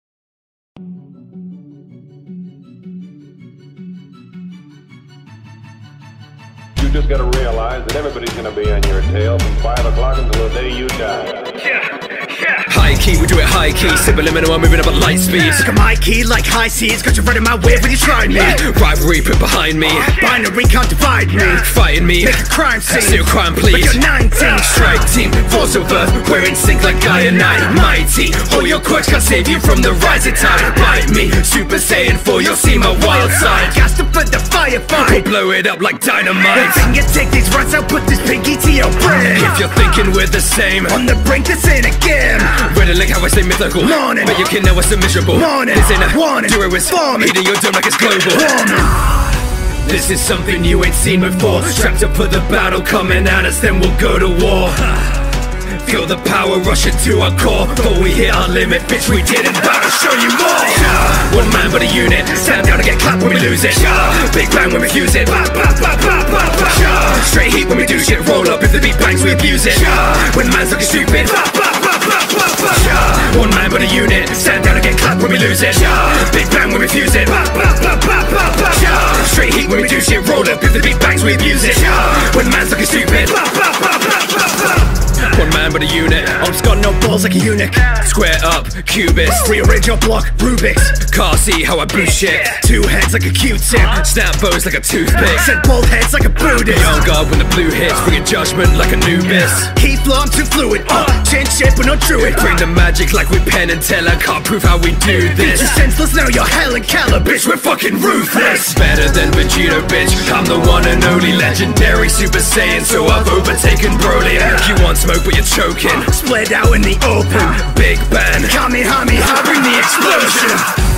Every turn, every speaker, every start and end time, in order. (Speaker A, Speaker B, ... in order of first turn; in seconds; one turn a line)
Speaker A: 6.8-11.6
Speaker B: 12.6-15.6
Speaker C: 15.5-18.6
Speaker B: 18.5-20.2
Speaker C: 20.1-21.6
Speaker B: 21.6-33.8
Speaker C: 22.2-24.6
Speaker C: 33.7-35.2
Speaker B: 35.1-36.8
Speaker C: 36.5-39.5
Speaker B: 39.4-41.0
Speaker C: 40.9-42.6
Speaker B: 42.5-48.7
Speaker C: 45.5-46.5
Speaker B: 49.8-55.2
Speaker B: 55.7-72.0
Speaker B: 72.6-83.8
Speaker B: 85.2-86.4
Speaker C: 86.4-88.0
Speaker B: 88.0-89.5
Speaker C: 89.4-91.1
Speaker B: 91.0-92.6
Speaker C: 92.6-94.0
Speaker B: 93.9-95.5
Speaker C: 95.4-96.9
Speaker B: 96.7-99.7
Speaker C: 99.7-102.4
Speaker B: 102.3-105.7
Speaker C: 105.4-107.4
Speaker B: 107.4-116.1
Speaker C: 116.1-117.7
Speaker B: 117.7-118.6
Speaker C: 118.5-120.2
Speaker B: 119.9-120.7